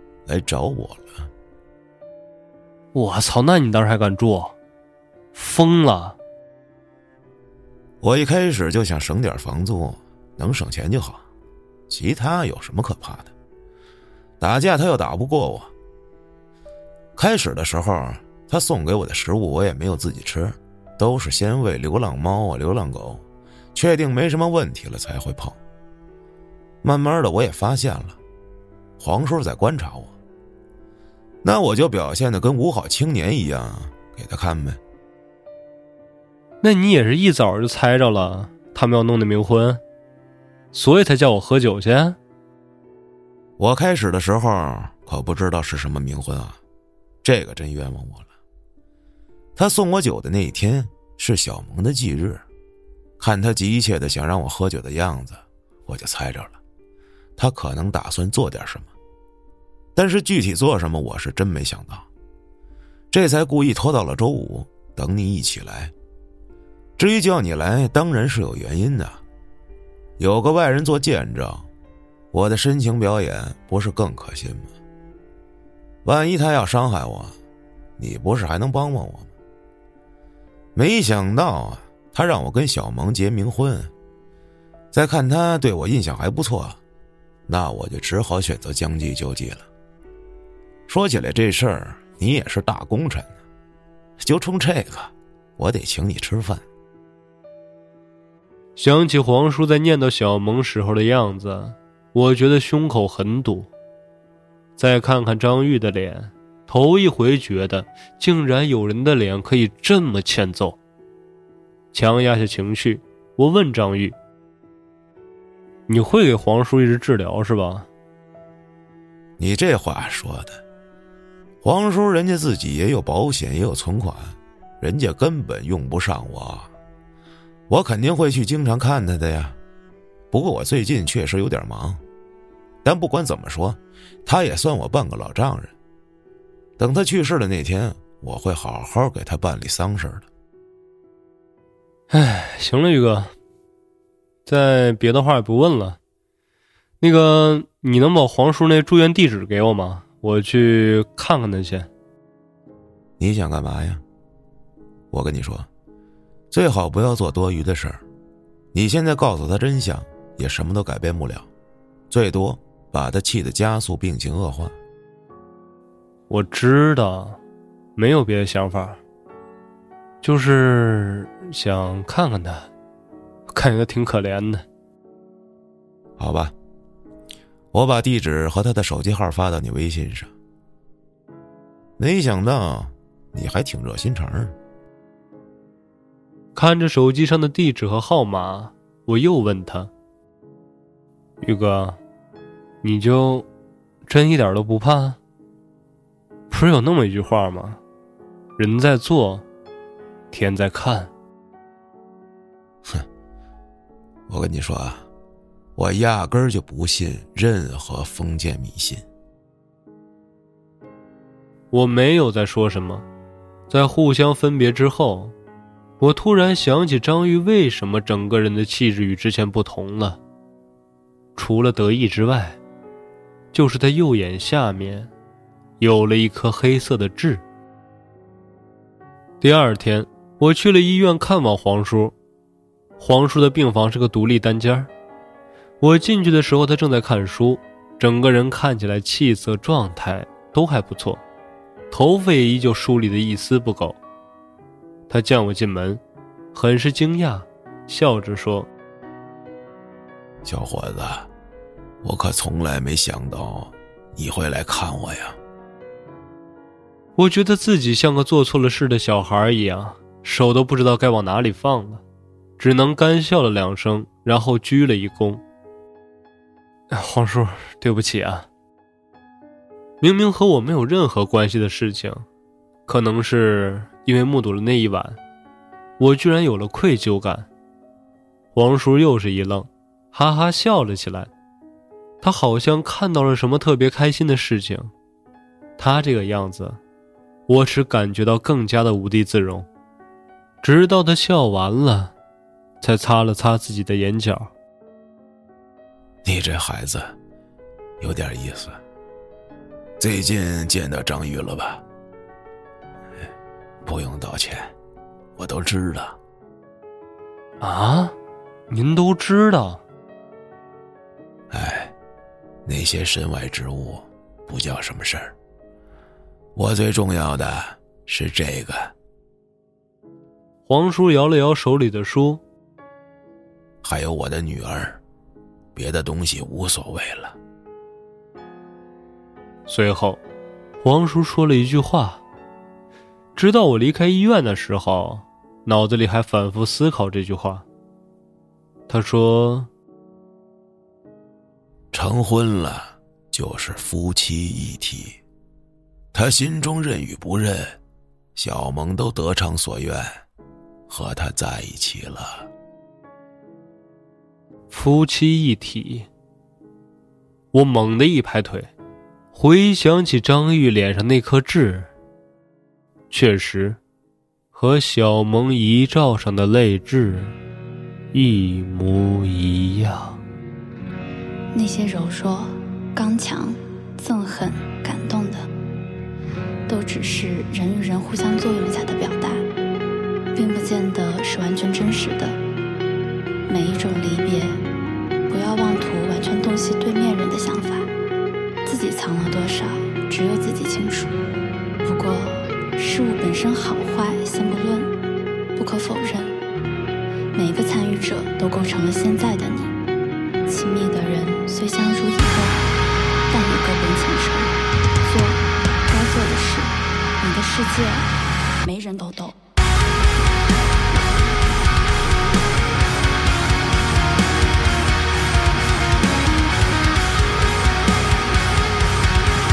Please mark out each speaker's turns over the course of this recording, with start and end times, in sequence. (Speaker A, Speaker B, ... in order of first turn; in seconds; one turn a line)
Speaker A: 0.2-1.3
Speaker B: 2.9-4.5
Speaker B: 5.3-6.2
Speaker A: 8.0-11.2
Speaker A: 11.9-13.3
Speaker A: 14.4-15.7
Speaker A: 17.1-25.6
Speaker A: 26.8-28.2
Speaker A: 29.0-30.1
Speaker A: 31.4-34.8
Speaker B: 36.6-39.8
Speaker B: 40.7-42.2
Speaker A: 43.6-46.6
Speaker A: 47.2-48.3
Speaker A: 49.5-52.4
Speaker A: 53.2-56.6
Speaker A: 57.4-58.9
Speaker A: 59.9-62.1
Speaker A: 63.1-65.9
Speaker A: 67.0-69.2
Speaker A: 70.2-71.7
Speaker A: 72.3-74.7
Speaker A: 76.0-77.3
Speaker A: 78.0-79.3
Speaker A: 80.7-83.9
Speaker A: 84.9-86.8
Speaker A: 87.5-89.7
Speaker A: 90.9-93.4
Speaker A: 94.2-96.6
Speaker B: 98.8-103.7
Speaker B: 104.8-110.8
Speaker B: 111.9-114.2
Speaker B: 115.9-117.9
Speaker A: 119.4-120.6
Speaker A: 121.6-126.7
Speaker A: 127.7-129.6
Speaker A: 130.3-132.0
Speaker A: 132.8-135.7
Speaker A: 136.8-140.2
Speaker B: 142.1-143.3
Speaker B: 144.4-146.0
Speaker B: 147.0-151.9
Speaker A: 153.2-154.0
Speaker A: 155.1-155.7
Speaker A: 156.5-158.0
Speaker A: 158.7-161.5
Speaker A: 162.1-164.8
Speaker B: 166.3-167.4
Speaker B: 167.9-169.0
Speaker B: 170.2-172.7
Speaker B: 173.5-174.6
Speaker A: 176.2-176.5
Speaker A: 177.7-180.3
Speaker A: 182.0-184.6
Speaker B: 186.5-189.9
Speaker B: 191.4-192.0
Speaker B: 192.8-193.4
Speaker B: 194.0-195.2
Speaker B: 196.5-197.8
Speaker B: 198.6-199.4
Speaker B: 200.3-201.1
Speaker A: 204.3-205.1
Speaker A: 205.8-209.0
Speaker B: 211.7-213.0
Speaker B: 213.7-215.3
Speaker B: 216.0-220.2
Speaker B: 221.3-222.6
Speaker B: 223.5-225.1
Speaker B: 225.8-227.4
Speaker B: 229.4-232.1
Speaker B: 233.0-234.9
Speaker B: 235.8-241.2
Speaker B: 241.9-244.0
Speaker B: 245.1-246.0
Speaker B: 246.5-248.7
Speaker A: 250.4-251.3
Speaker A: 252.0-255.4
Speaker B: 257.1-262.0
Speaker B: 262.6-265.4
Speaker B: 266.9-268.5
Speaker B: 270.0-272.2
Speaker B: 272.9-275.2
Speaker B: 276.0-277.5
Speaker B: 278.5-281.3
Speaker B: 282.2-284.9
Speaker B: 285.8-286.8
Speaker B: 287.5-289.7
Speaker B: 290.6-292.1
Speaker B: 292.8-294.5
Speaker A: 296.2-297.1
Speaker A: 298.0-298.8
Speaker A: 300.0-301.8
Speaker A: 303.8-304.7
Speaker A: 305.4-306.2
Speaker B: 307.6-308.1
Speaker B: 308.7-309.8
Speaker A: 311.5-311.9
Speaker A: 312.6-315.3
Speaker A: 316.5-318.9
Speaker B: 320.7-322.4
Speaker A: 323.8-325.0
Speaker A: 325.7-327.4
Speaker B: 329.7-330.2
Speaker B: 330.8-332.2
Speaker B: 333.4-337.6
Speaker B: 338.9-339.7
Speaker A: 341.9-345.2
Speaker A: 346.1-347.8
Speaker A: 348.4-350.2
Speaker A: 350.9-352.5
Speaker B: 354.7-356.1
Speaker B: 357.5-358.7
Speaker B: 359.3-361.9
Speaker B: 363.1-363.8
Speaker B: 364.5-367.3
Speaker B: 368.1-370.2
Speaker C: 371.5-375.4
Speaker C: 376.7-379.4
Speaker C: 380.3-382.4
Speaker C: 383.5-384.6
Speaker C: 385.3-387.9
Speaker C: 388.6-391.2
Speaker C: 391.8-394.9
Speaker C: 395.6-396.3
Speaker C: 397.3-399.7
Speaker C: 400.5-402.6
Speaker C: 403.3-408.1
Speaker C: 408.6-409.3